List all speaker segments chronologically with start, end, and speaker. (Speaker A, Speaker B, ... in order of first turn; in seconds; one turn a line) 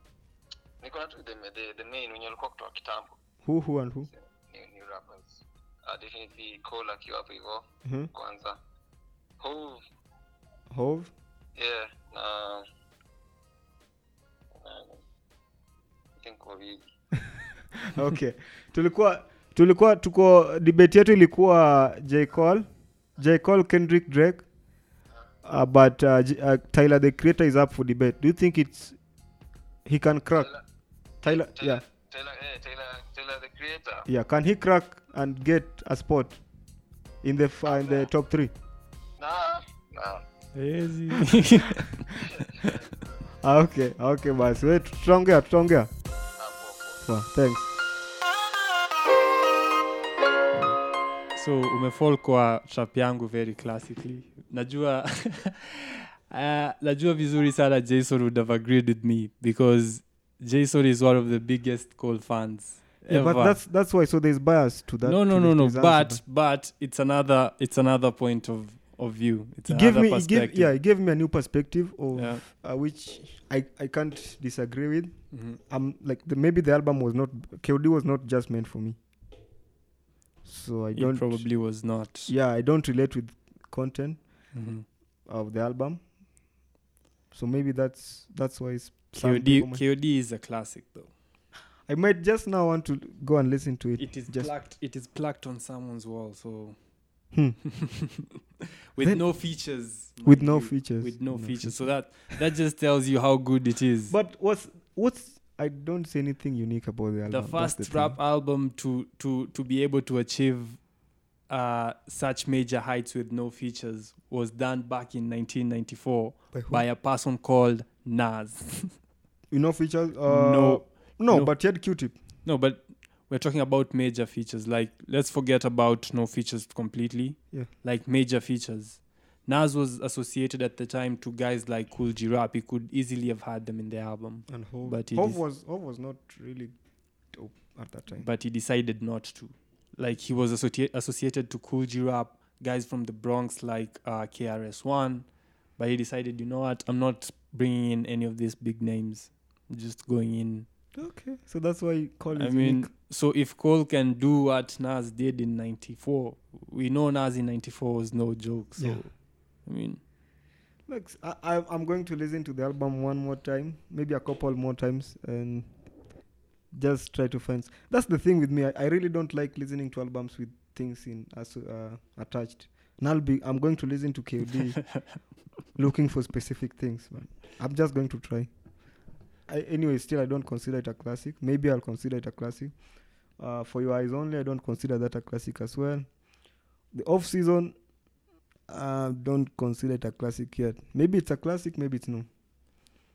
Speaker A: 0.8-3.2
Speaker B: 3.4-4.1
Speaker A: 4.1-8.6
Speaker B: 7.8-8.1
Speaker A: 9.4-9.8
Speaker B: 10.7-11.1
Speaker A: 11.6-12.6
Speaker A: 14.6-15.0
Speaker A: 16.2-16.8
Speaker B: 17.8-24.4
Speaker B: 25.4-29.0
Speaker B: 29.9-30.5
Speaker A: 30.3-30.6
Speaker B: 31.2-31.8
Speaker A: 31.2-34.1
Speaker B: 34.1-36.4
Speaker B: 37.2-38.5
Speaker A: 37.6-38.1
Speaker A: 39.2-40.2
Speaker C: 40.5-42.0
Speaker A: 42.1-42.8
Speaker B: 43.4-45.9
Speaker A: 46.4-47.0
Speaker B: 47.0-47.7
Speaker C: 51.3-63.6
Speaker B: 63.1-66.2
Speaker C: 65.0-70.7
Speaker B: 69.7-79.0
Speaker C: 72.1-72.4
Speaker C: 75.3-75.6
Speaker B: 80.4-81.7
Speaker C: 80.9-82.3
Speaker B: 82.2-84.5
Speaker C: 84.5-84.8
Speaker B: 85.2-86.1
Speaker B: 87.3-89.8
Speaker C: 89.2-91.1
Speaker B: 91.9-94.5
Speaker C: 94.0-96.8
Speaker B: 97.3-97.6
Speaker C: 97.8-98.2
Speaker C: 98.9-104.1
Speaker B: 99.0-99.4
Speaker B: 100.2-102.2
Speaker B: 104.1-108.2
Speaker C: 107.3-110.8
Speaker C: 111.5-119.0
Speaker B: 116.5-116.8
Speaker B: 119.5-122.2
Speaker C: 120.2-121.5
Speaker C: 122.4-135.4
Speaker B: 134.5-136.7
Speaker B: 137.3-138.3
Speaker C: 138.2-150.7
Speaker B: 150.9-152.9
Speaker C: 152.3-160.0
Speaker B: 158.8-159.0
Speaker B: 160.9-165.8
Speaker B: 166.7-175.1
Speaker B: 175.7-178.5
Speaker B: 179.5-182.8
Speaker B: 183.4-186.1
Speaker B: 186.9-187.8
Speaker B: 188.7-192.3